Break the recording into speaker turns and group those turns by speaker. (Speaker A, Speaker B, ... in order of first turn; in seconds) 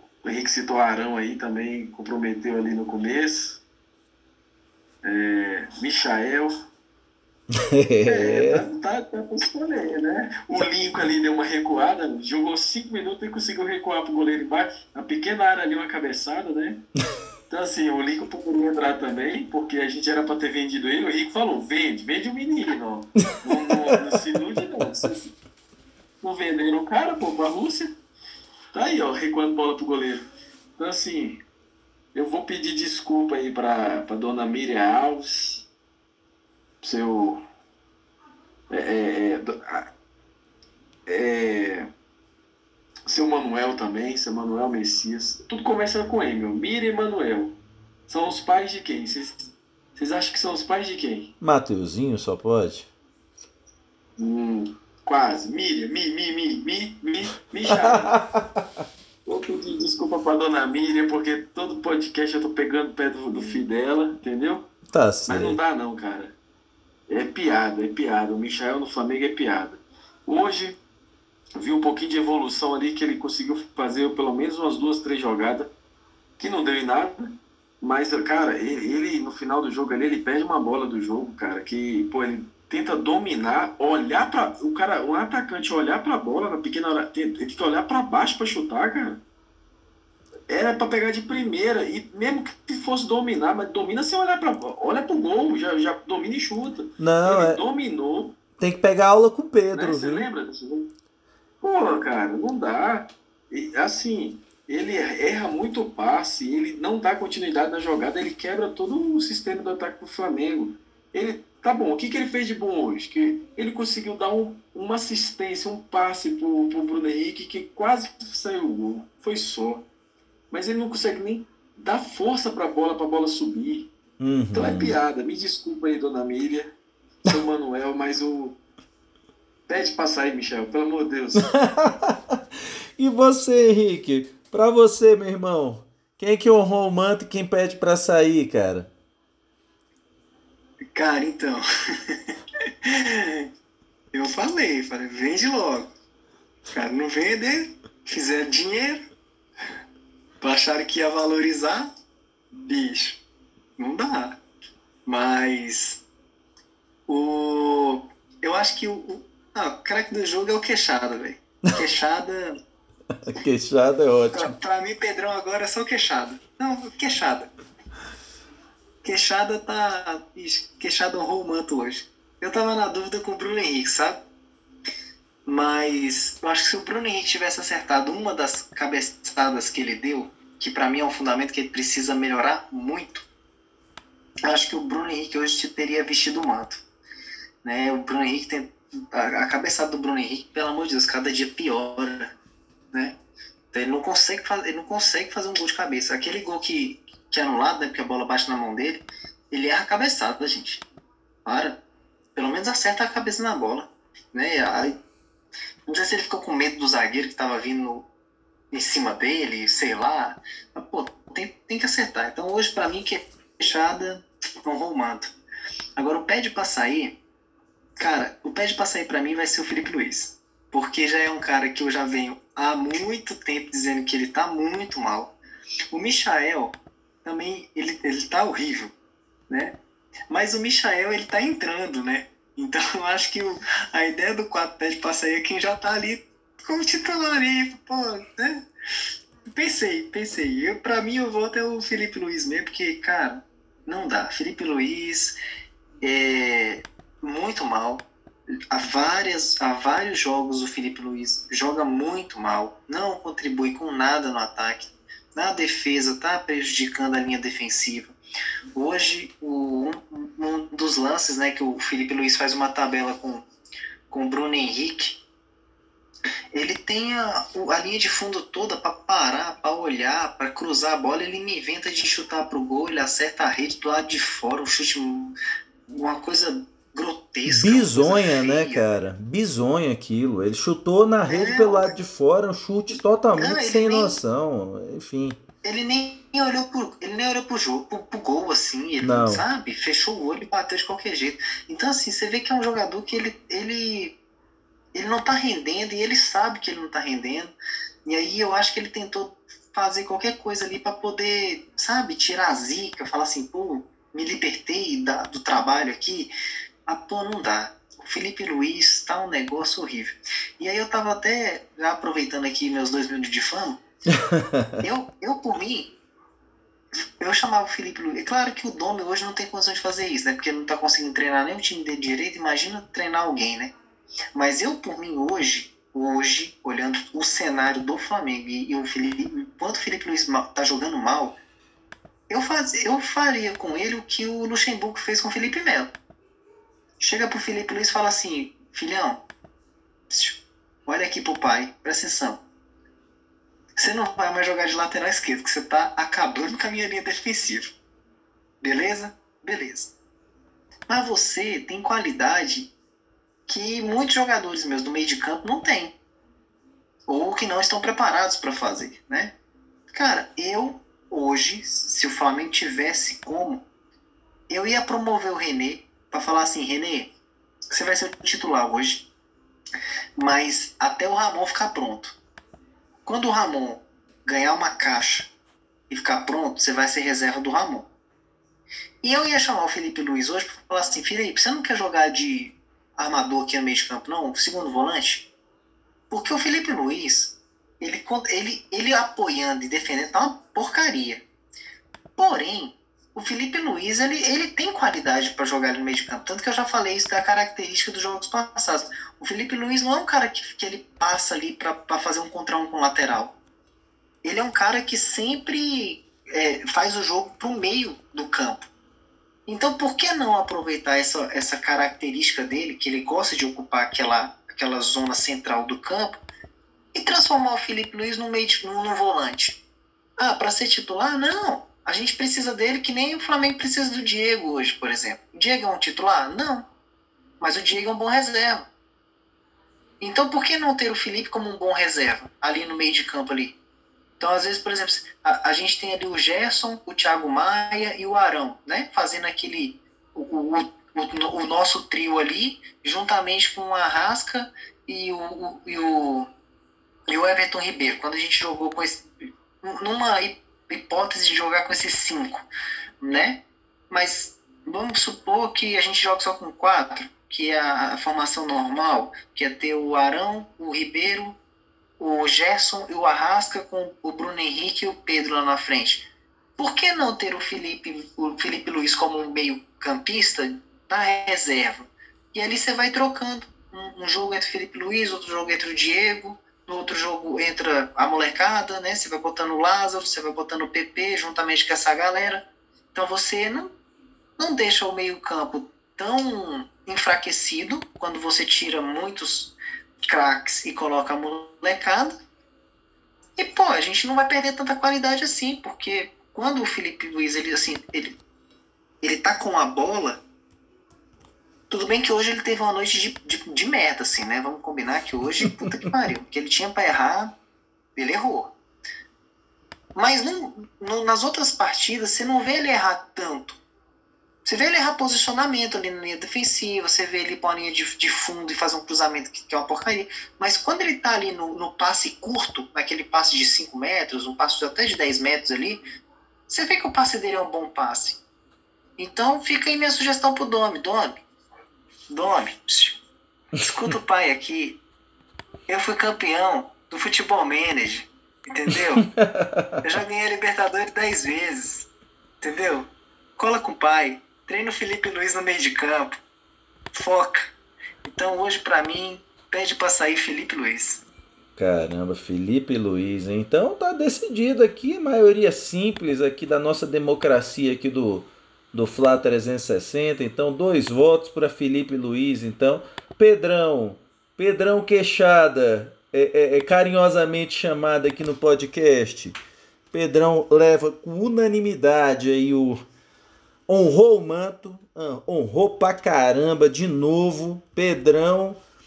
Speaker A: 0.2-3.6, 5.0-6.6, 8.1-16.8, 17.5-25.3, 26.2-27.9, 28.7-31.4, 32.1-35.7, 36.8-37.4, 38.7-39.9, 41.0-41.9, 43.0-51.3, 54.2-58.2, 59.2-64.7, 65.3-66.4, 67.1-70.8, 71.5-75.7, 76.4-89.2, 90.5-98.4, 99.7-100.9, 101.6-119.9, 120.5-123.9, 124.5-128.6, 129.7-131.5
Speaker B: 7.5-8.6, 51.4-52.9, 57.7-58.6, 64.9-65.6, 97.0-97.6, 98.6-100.3, 124.2-125.0, 131.3-132.4, 133.0-138.9, 163.2-164.5, 277.4-285.4, 289.0-289.4, 314.1-314.8, 533.5-533.9, 539.0-539.8, 551.6-569.4, 569.9-572.8, 573.7-578.6
Speaker C: 140.9-142.2, 142.8-143.5, 144.1-145.9, 146.7-149.0, 150.4-151.9, 152.7-153.2, 153.8-154.4, 155.1-156.0, 157.1-162.6, 164.3-167.5, 169.0-174.2, 175.4-183.2, 184.4-186.8, 187.6-192.3, 193.7-200.8, 201.4-201.8, 202.3-204.9, 205.9-208.1, 208.7-215.3, 216.0-217.2, 218.0-225.3, 225.9-228.9, 229.5-229.8, 230.3-238.6, 239.5-245.4, 246.0-248.1, 248.7-258.1, 258.7-263.4, 264.1-265.2, 266.5-275.4, 275.9-278.9, 281.3-281.9, 283.4-284.2, 285.6-294.1, 294.9-306.3, 306.9-313.8, 314.8-315.9, 317.2-323.7, 324.3-331.4, 332.3-335.9, 337.0-339.2, 340.1-342.4, 343.8-347.7, 348.6-349.9, 350.9-352.7, 353.5-355.9, 357.1-359.3, 359.9-363.6, 364.5-367.1, 367.7-369.1, 370.2-372.1, 373.0-375.3, 375.9-377.9, 379.0-385.3, 386.1-391.2, 392.1-403.4, 404.2-408.7, 409.5-416.2, 416.9-419.6, 420.2-426.7, 427.4-428.7, 430.0-433.6, 434.2-446.3, 447.1-449.1, 449.6-452.4, 453.0-461.4, 462.0-483.7, 484.4-489.5, 490.1-492.1, 493.4-498.2, 499.0-500.2, 501.7-507.3, 507.9-508.6, 509.9-513.6, 514.4-525.8, 526.5-528.2, 529.0-531.2, 532.1-533.0, 533.6-534.8, 535.7-539.1, 539.8-541.9, 542.4-546.1, 546.9-551.0